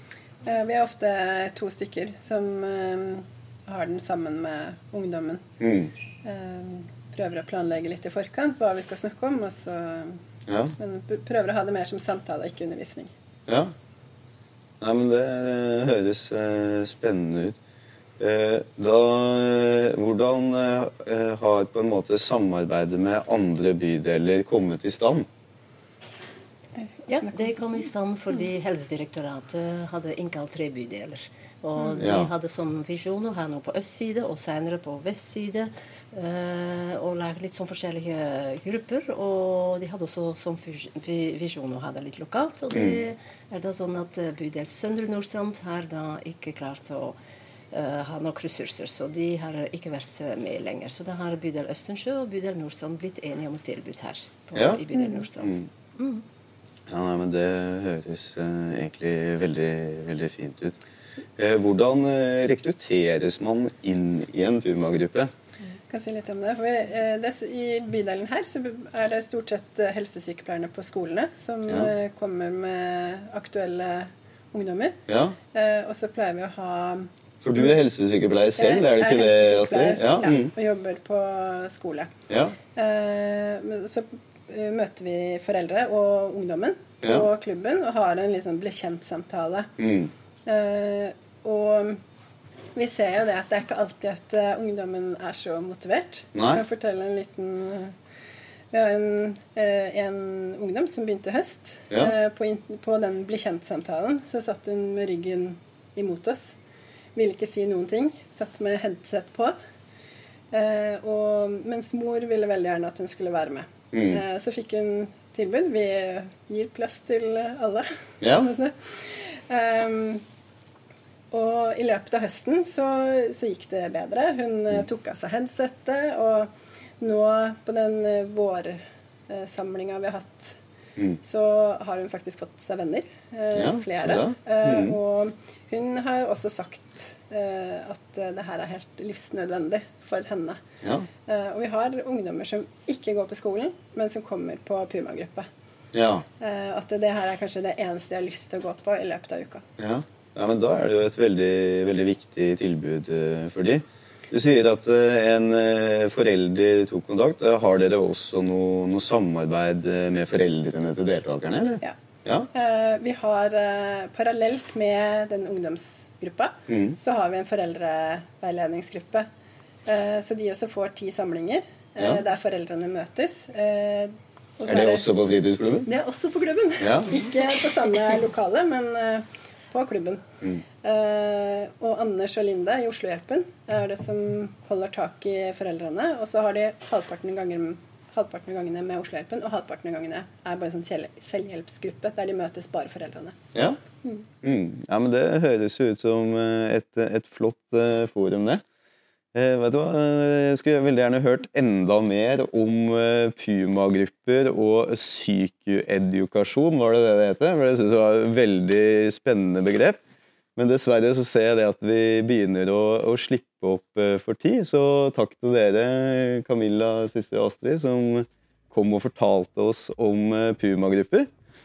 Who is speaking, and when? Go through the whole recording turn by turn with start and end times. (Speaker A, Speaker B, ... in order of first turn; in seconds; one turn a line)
Speaker A: 0.5-5.4
Speaker B: 5.6-5.9
Speaker A: 6.2-10.2
Speaker B: 10.5-10.7
Speaker A: 10.8-13.1
Speaker B: 13.5-13.7
Speaker B: 14.8-17.6
Speaker B: 18.2-25.3
Speaker A: 26.9-27.4
Speaker C: 27.1-47.2
Speaker B: 32.0-32.3
Speaker B: 42.7-43.0
Speaker C: 47.7-56.2
Speaker B: 54.5-54.8
Speaker B: 55.4-55.7
Speaker B: 56.9-60.8
Speaker B: 61.4-65.3
Speaker A: 65.9-75.0
Speaker B: 75.1-75.4
Speaker A: 75.5-77.1
Speaker B: 77.4-80.5
Speaker A: 78.5-82.1
Speaker B: 82.3-82.6
Speaker A: 82.8-89.7
Speaker B: 89.8-90.1
Speaker A: 90.5-92.0
Speaker A: 92.8-97.9
Speaker B: 96.3-96.6
Speaker A: 98.7-106.6
Speaker A: 107.2-109.5
Speaker A: 110.5-120.2
Speaker B: 113.9-114.2
Speaker B: 118.2-118.5
Speaker A: 121.3-130.6
Speaker A: 131.2-140.6
Speaker B: 133.5-135.0
Speaker B: 140.8-141.1
Speaker A: 141.3-145.5
Speaker B: 145.9-146.3
Speaker A: 146.4-149.7
Speaker B: 149.8-162.5
Speaker A: 162.5-169.3
Speaker B: 166.7-167.0
Speaker A: 169.9-175.1
Speaker B: 174.7-175.9
Speaker A: 175.8-180.2
Speaker B: 176.8-177.1
Speaker A: 180.8-193.4
Speaker B: 193.5-193.8
Speaker B: 194.4-198.6
Speaker B: 199.3-210.0
Speaker B: 210.6-221.3